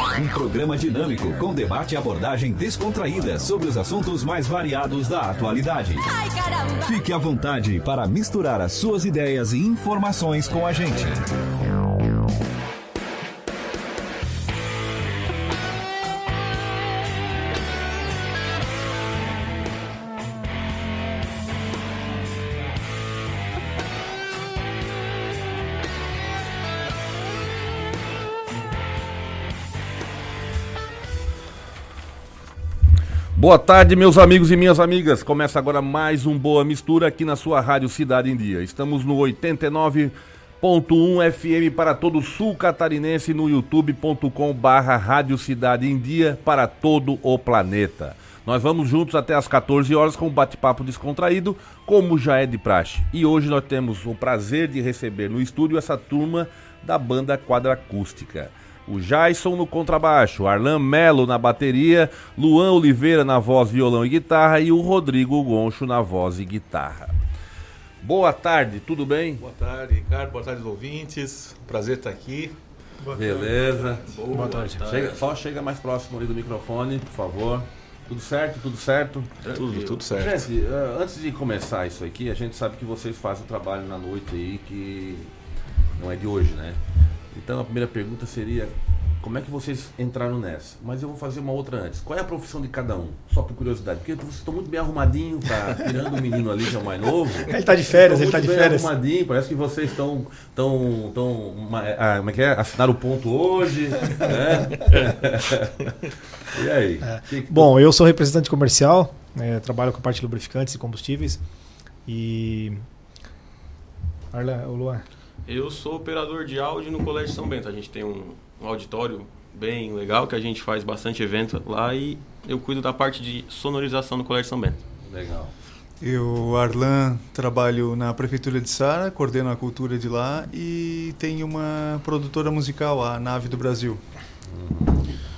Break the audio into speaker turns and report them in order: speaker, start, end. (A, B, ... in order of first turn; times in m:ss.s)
0:00.1-0:06.1 A
0:06.8-0:11.2 A
0:33.3-1:07.1 B
1:08.0-1:09.4 B
1:09.4-1:12.5 C
1:13.0-1:13.8 D
1:13.1-1:14.0 B
1:14.0-1:15.2 E
1:14.3-1:14.8 F
1:14.8-1:25.3 B
1:19.5-1:20.4 C
1:26.0-1:26.8 B
1:27.3-1:45.9 B
1:37.5-1:38.9 F
1:46.5-1:47.7 B
1:47.0-1:51.4 F
1:52.0-1:52.8 F
1:54.3-1:55.0 F
1:55.5-2:04.8 E
2:05.0-2:05.5 B
2:06.0-2:14.0 D
2:14.5-2:15.1 B